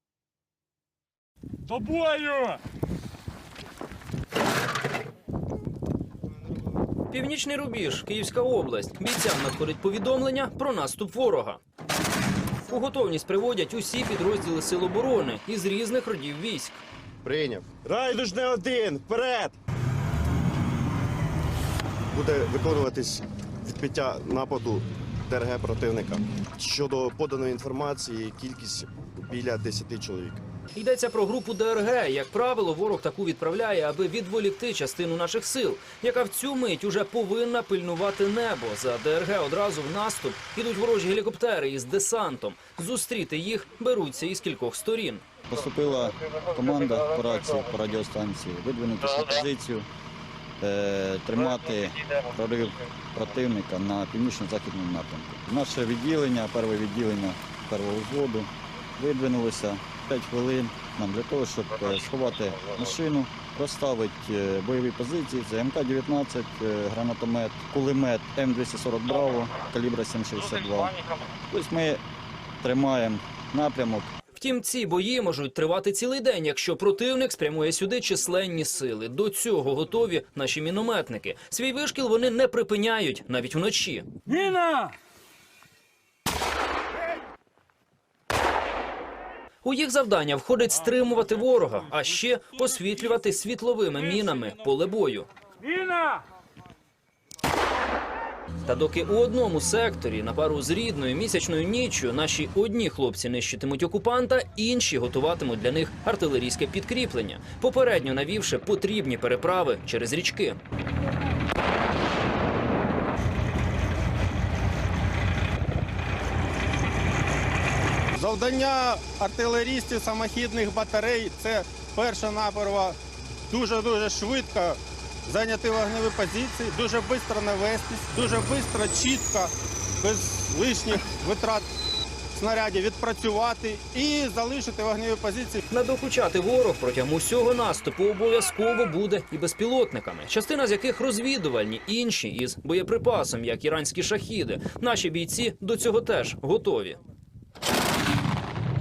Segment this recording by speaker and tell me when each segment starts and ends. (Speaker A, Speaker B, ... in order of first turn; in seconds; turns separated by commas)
Speaker A: 7.1-11.6, Speaker A: 12.7-16.8, Speaker B: 17.2-19.6, Speaker B: 22.1-30.4, Speaker A: 30.8-45.2, Speaker C: 45.5-49.9, Speaker C: 50.6-72.0, Speaker C: 72.6-74.1, Speaker A: 74.4-84.1, Speaker A: 89.6-95.3, Speaker A: 98.7-110.6, Speaker D: 118.1-123.0, Speaker D: 123.5-131.7, Speaker D: 132.3-135.6, Speaker A: 135.7-147.0